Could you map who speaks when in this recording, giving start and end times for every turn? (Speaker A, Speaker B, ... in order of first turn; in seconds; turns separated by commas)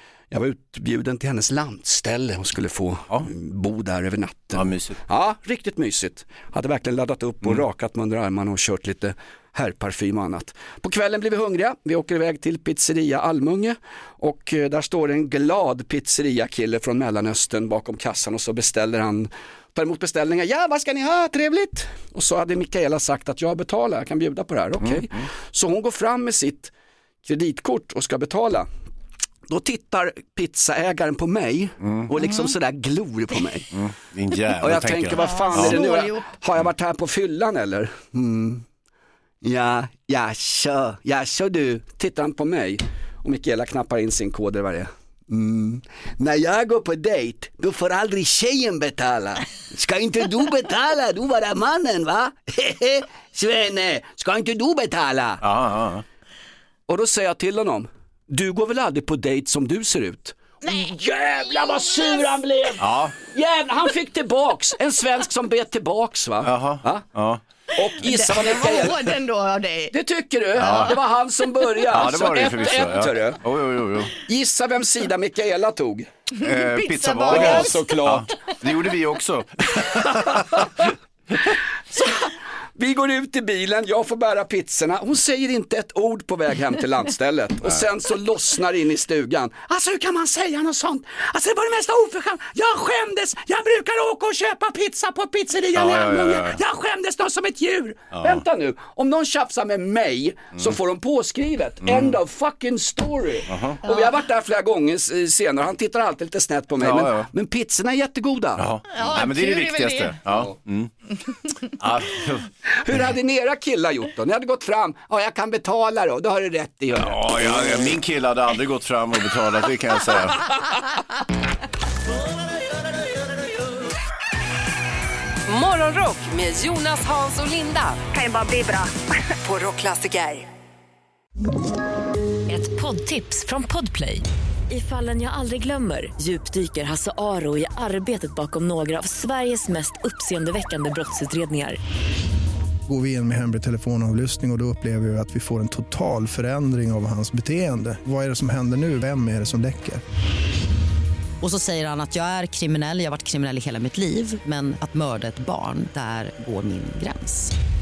Speaker A: 0.3-26.7, Speaker B: 4.5-5.0, Speaker A: 27.2-28.7, Speaker A: 29.5-33.7, Speaker B: 31.8-32.1, Speaker B: 33.7-35.8, Speaker A: 34.6-38.6, Speaker C: 35.1-36.3, Speaker A: 39.4-55.4, Speaker B: 55.4-56.0, Speaker A: 56.9-67.0, Speaker B: 62.8-63.2, Speaker B: 66.4-67.4, Speaker A: 67.8-69.1, Speaker C: 68.0-69.9, Speaker A: 69.9-73.4, Speaker C: 70.6-70.9, Speaker B: 70.6-71.0, Speaker B: 71.9-74.1, Speaker A: 74.2-76.1, Speaker C: 76.3-77.8, Speaker B: 76.4-80.8, Speaker A: 77.3-78.3, Speaker A: 81.9-108.7, Speaker B: 95.7-96.6, Speaker B: 98.1-98.4, Speaker B: 101.8-102.2, Speaker B: 103.5-103.8, Speaker B: 106.8-107.3, Speaker B: 108.6-110.9, Speaker C: 108.9-110.2, Speaker B: 111.7-113.0, Speaker A: 112.8-117.9, Speaker B: 117.0-120.5, Speaker D: 125.5-128.9, Speaker D: 129.4-130.4, Speaker E: 132.5-141.8, Speaker F: 142.9-150.0, Speaker G: 151.4-157.5